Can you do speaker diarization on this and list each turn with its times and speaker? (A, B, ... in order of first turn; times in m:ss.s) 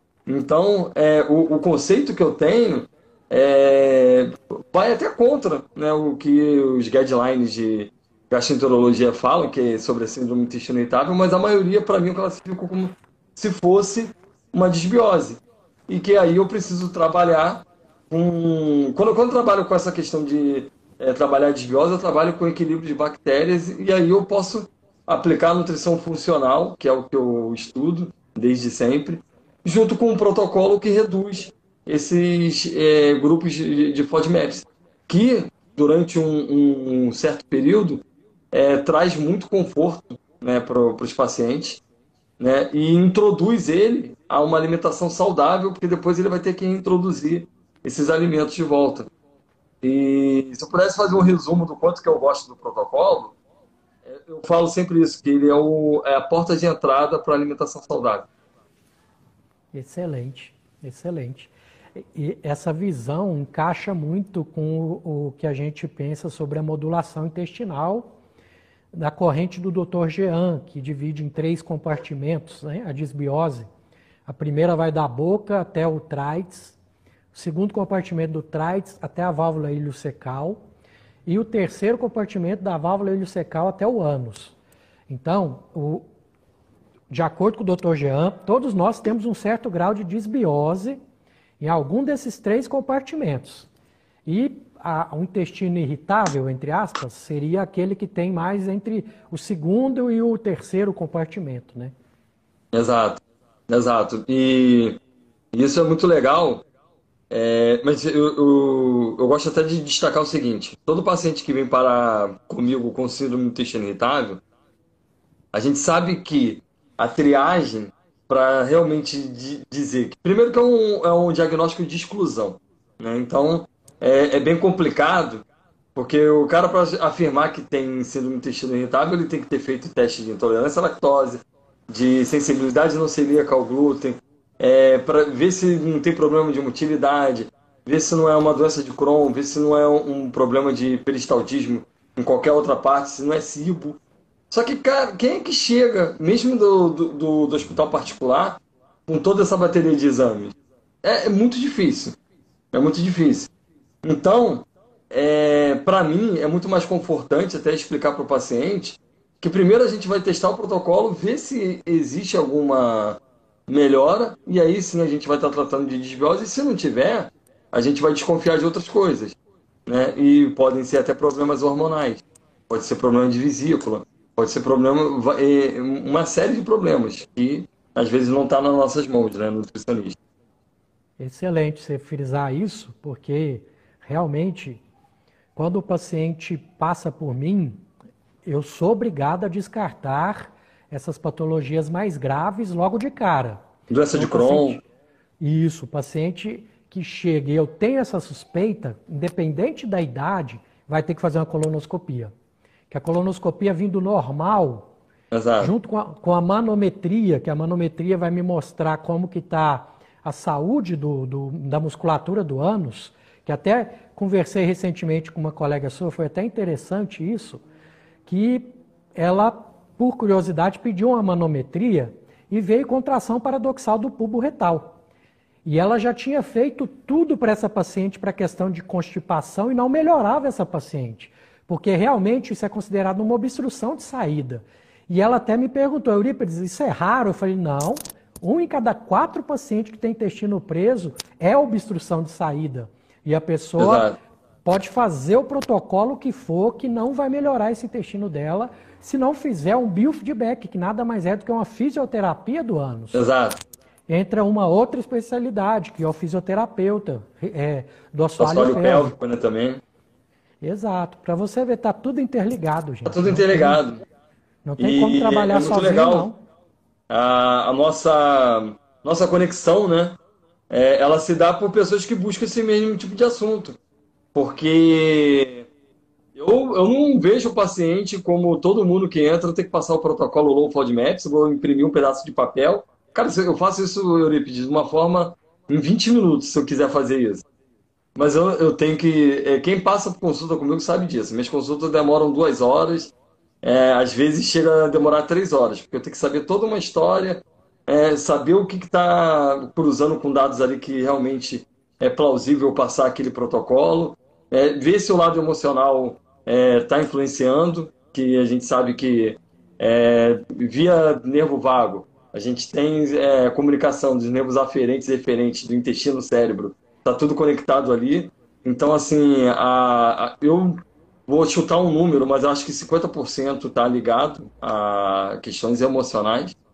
0:00.2-0:41.8 A
0:42.4-0:49.1 A
0:49.8-0:53.3 A
0:54.0-0:58.3 A
0:59.7-1:08.1 B
1:08.9-1:13.7 B
1:14.3-1:16.8 B
1:17.3-1:20.6 B
1:21.2-1:24.5 B
1:25.1-1:26.0 B
1:27.1-1:31.0 B
1:31.6-1:33.7 B
1:34.2-1:41.9 B
1:42.7-1:45.0 A
1:45.5-1:46.6 A
1:47.3-1:54.4 A
1:55.5-2:24.0 A
2:24.5-2:32.2 A
2:32.7-2:33.5 A
2:34.0-3:00.2 A
3:01.2-3:04.8 B
3:05.5-3:07.8 B
3:08.4-3:13.6 B
3:13.9-3:14.8 A
3:14.1-3:14.8 B
3:15.4-3:22.3 B
3:22.9-3:24.9 B
3:25.3-3:25.7 A
3:25.6-3:37.6 B
3:38.2-3:45.0 B
3:45.6-4:04.1 B
4:03.8-4:04.1 A
4:04.6-4:13.2 B
4:13.1-4:13.6 A
4:14.1-4:19.2 B
4:18.4-4:19.8 A
4:20.6-4:23.8 B
4:23.0-4:24.0 A
4:24.6-4:26.4 B
4:24.8-4:26.3 A
4:27.1-4:30.2 A
4:30.7-4:33.8 A
4:34.3-4:35.7 A
4:36.4-4:47.4 A
4:48.1-5:26.6 A